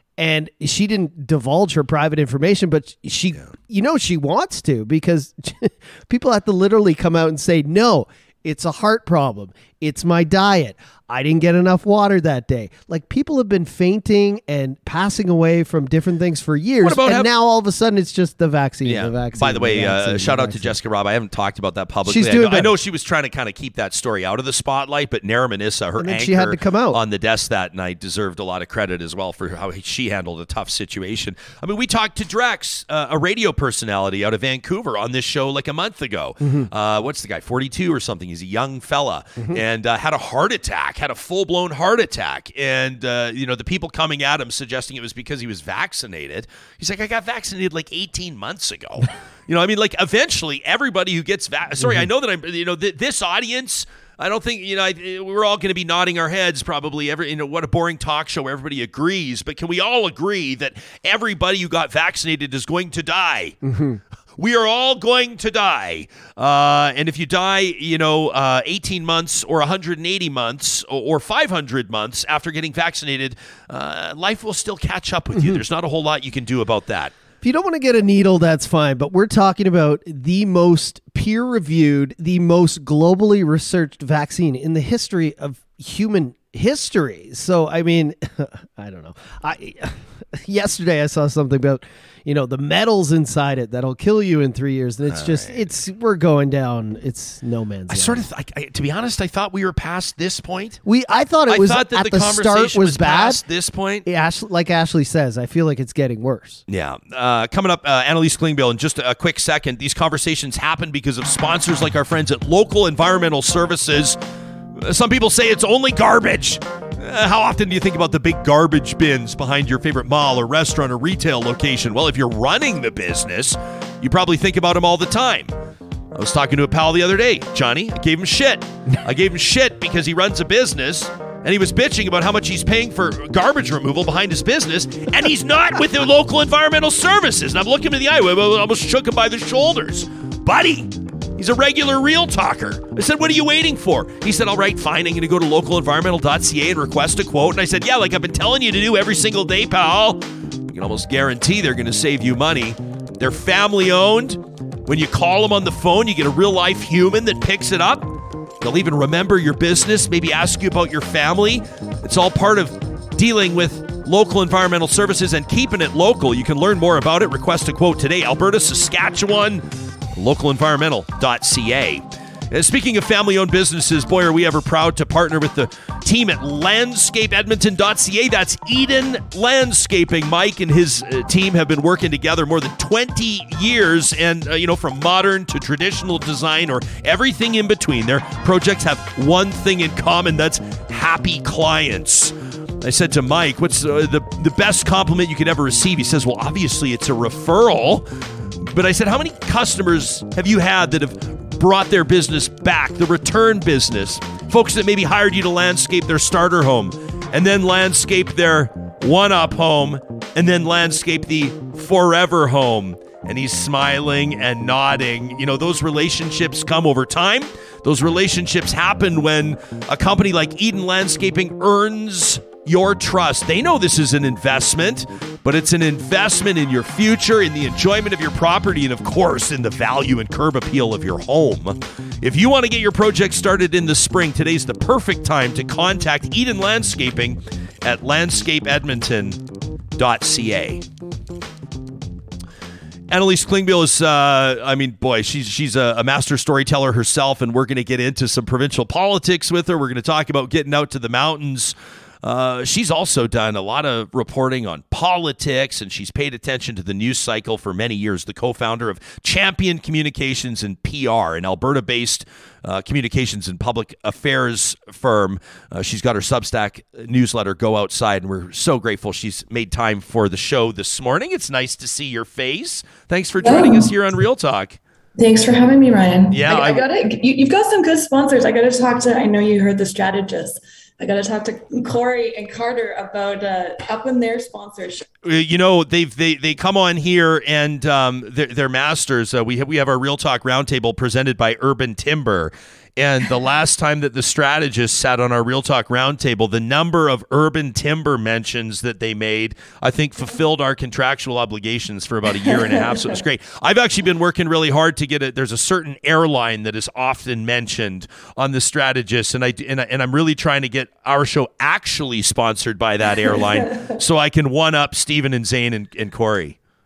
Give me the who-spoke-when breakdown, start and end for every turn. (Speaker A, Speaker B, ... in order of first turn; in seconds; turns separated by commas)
Speaker A: 0.2-20.7, Speaker B: 16.8-17.3, Speaker B: 18.8-63.6, Speaker A: 22.0-22.7, Speaker A: 26.0-27.0, Speaker A: 36.4-36.7, Speaker A: 63.6-64.0, Speaker B: 64.4-77.1, Speaker A: 75.3-75.6, Speaker A: 77.4-98.2, Speaker B: 95.1-95.5, Speaker B: 97.9-100.8, Speaker A: 100.8-103.4, Speaker B: 101.5-104.0, Speaker A: 104.0-106.6, Speaker B: 106.7-114.2, Speaker B: 114.8-125.5, Speaker B: 126.1-198.1, Speaker B: 198.7-239.4, Speaker B: 239.9-240.8, Speaker B: 243.1-274.8, Speaker C: 273.4-273.9, Speaker C: 275.2-285.1, Speaker B: 276.3-276.8, Speaker B: 285.2-316.6, Speaker C: 302.5-302.9, Speaker C: 313.5-313.9